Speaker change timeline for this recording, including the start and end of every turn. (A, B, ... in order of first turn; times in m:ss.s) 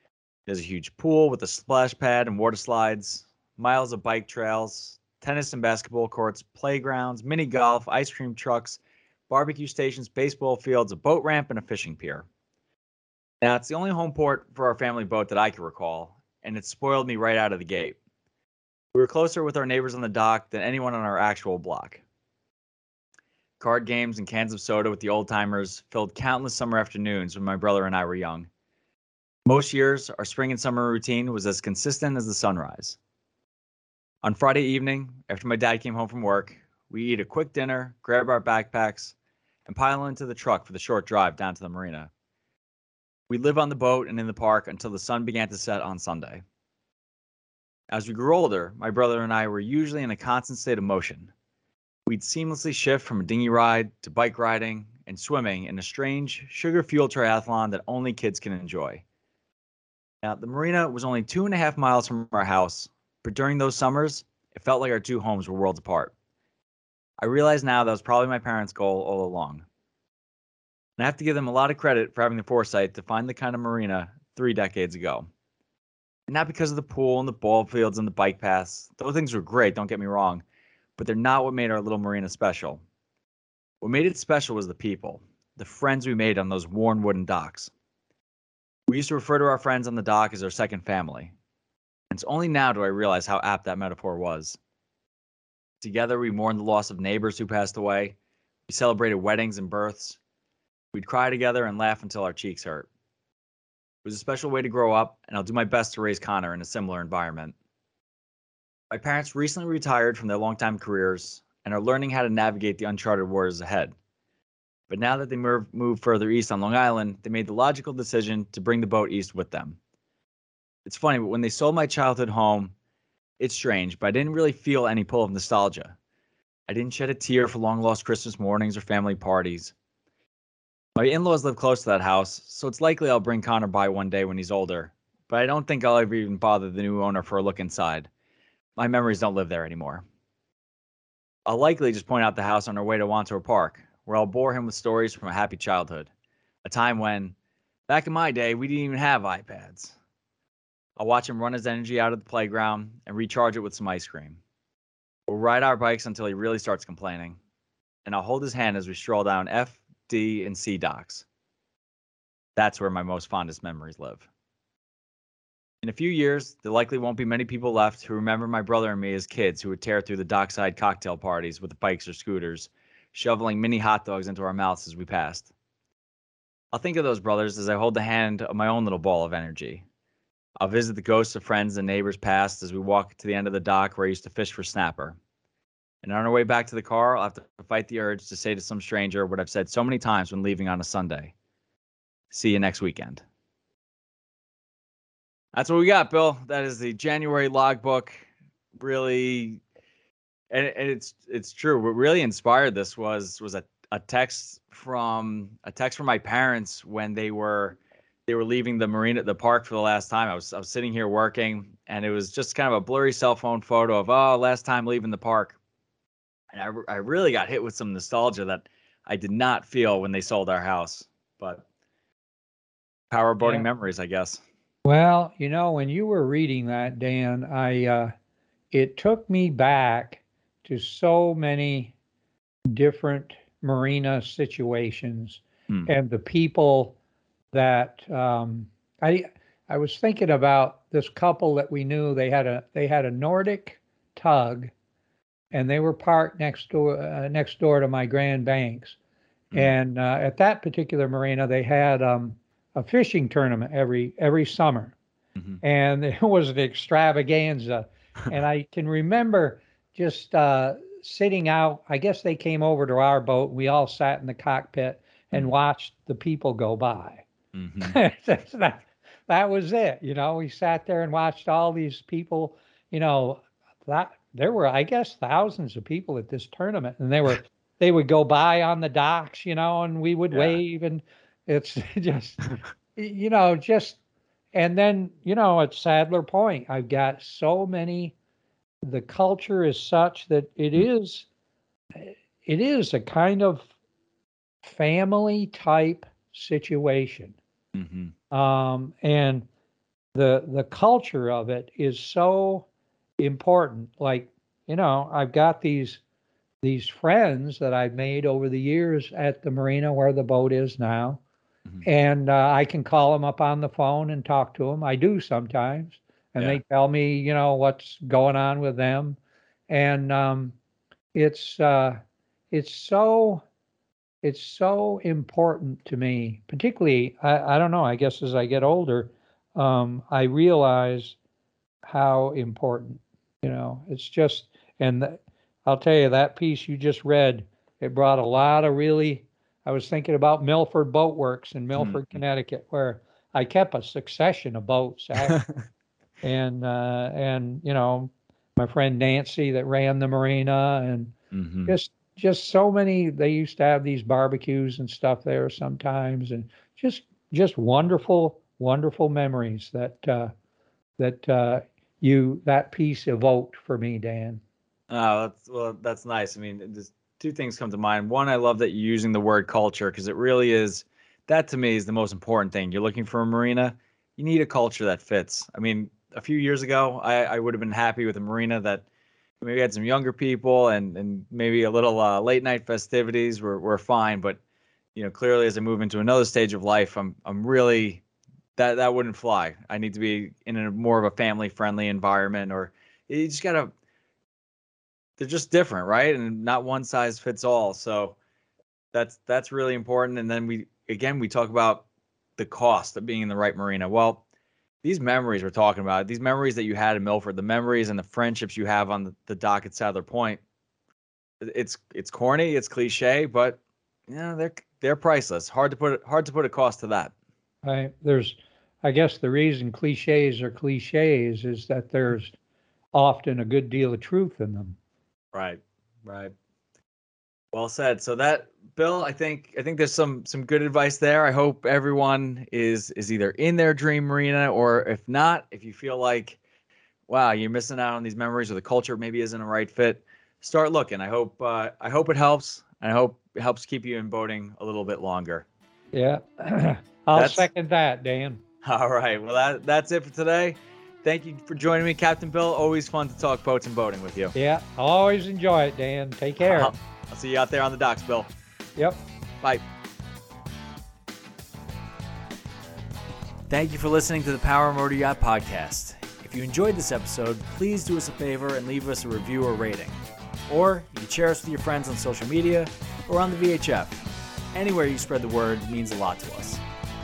0:00.5-0:12.3 A
0:13.4-0:18.0 A
0:18.9-0:22.0 A
0:23.6-0:28.5 A
0:29.4-0:33.0 A
0:34.2-0:39.1 A
0:39.6-0:42.1 A
0:43.3-0:46.4 A
0:47.9-0:51.3 A
0:52.0-0:59.0 A
1:00.2-1:06.1 A
1:07.2-1:09.6 A
1:11.0-1:15.3 A
1:16.3-1:20.4 A
1:21.0-1:22.8 A
1:23.8-1:27.7 A
1:28.9-1:31.3 A
1:32.1-1:34.6 A
1:35.8-1:38.2 A
1:38.7-1:40.2 A
1:40.9-1:42.9 A
1:44.0-1:47.5 A
1:48.9-1:54.0 A
1:54.9-1:59.8 A
2:00.8-2:02.7 A
2:03.4-2:06.0 A
2:06.7-2:09.7 A
2:11.0-2:18.1 A
2:18.8-2:20.0 A
2:21.5-2:26.1 A
2:26.6-2:27.3 A
2:27.9-2:29.9 A
2:31.0-2:34.4 A
2:35.3-2:37.4 A
2:38.0-2:41.2 A
2:42.6-2:44.2 A
2:45.8-2:55.5 A
2:56.7-2:59.8 A
3:00.6-3:05.2 A
3:06.0-3:11.3 A
3:12.3-3:13.2 A
3:15.5-3:18.2 A
3:18.8-3:19.6 A
3:20.5-3:35.6 A
3:36.5-3:41.6 A
3:43.1-3:44.4 A
3:43.4-3:43.7 B
3:44.8-3:48.1 B
3:48.7-3:51.9 B
3:52.7-3:57.0 B
3:57.5-4:04.7 B
4:05.5-4:09.0 B
4:09.5-4:14.9 B
4:15.6-4:27.2 B
4:27.5-4:28.0 A
4:27.8-4:44.0 B
4:40.3-4:40.6 A
4:44.5-4:48.1 B
4:48.8-4:51.3 B
4:52.0-4:53.7 B
4:54.6-4:57.4 B
4:57.7-4:58.1 A
4:58.3-4:59.5 B
5:00.1-5:02.7 B
5:03.2-5:06.0 B
5:06.6-5:11.2 B
5:11.8-5:19.2 B
5:19.7-5:20.5 B
5:21.1-5:22.0 B
5:22.5-5:23.4 B
5:24.2-5:31.2 B
5:31.9-5:45.4 B
5:41.8-5:42.2 A
5:45.3-5:45.6 A
5:46.2-5:51.1 B
5:51.3-5:51.7 A
5:51.7-6:00.3 B
6:01.0-6:04.4 B
6:04.9-6:18.8 A
6:19.4-6:24.4 A
6:24.9-6:28.0 A
6:28.6-6:33.7 A
6:35.2-6:38.2 A
6:38.9-6:41.8 A
6:42.4-6:44.2 A
6:44.8-6:50.4 A
6:51.4-6:57.1 A
6:57.6-7:02.3 B
7:02.9-7:04.8 B
7:05.3-7:06.3 A
7:07.5-7:16.4 A
7:17.1-7:25.5 A
7:25.9-7:28.4 B
7:27.2-7:27.5 A
7:28.6-7:34.3 A
7:34.3-7:36.7 B
7:36.4-7:38.3 A
7:43.5-7:56.6 A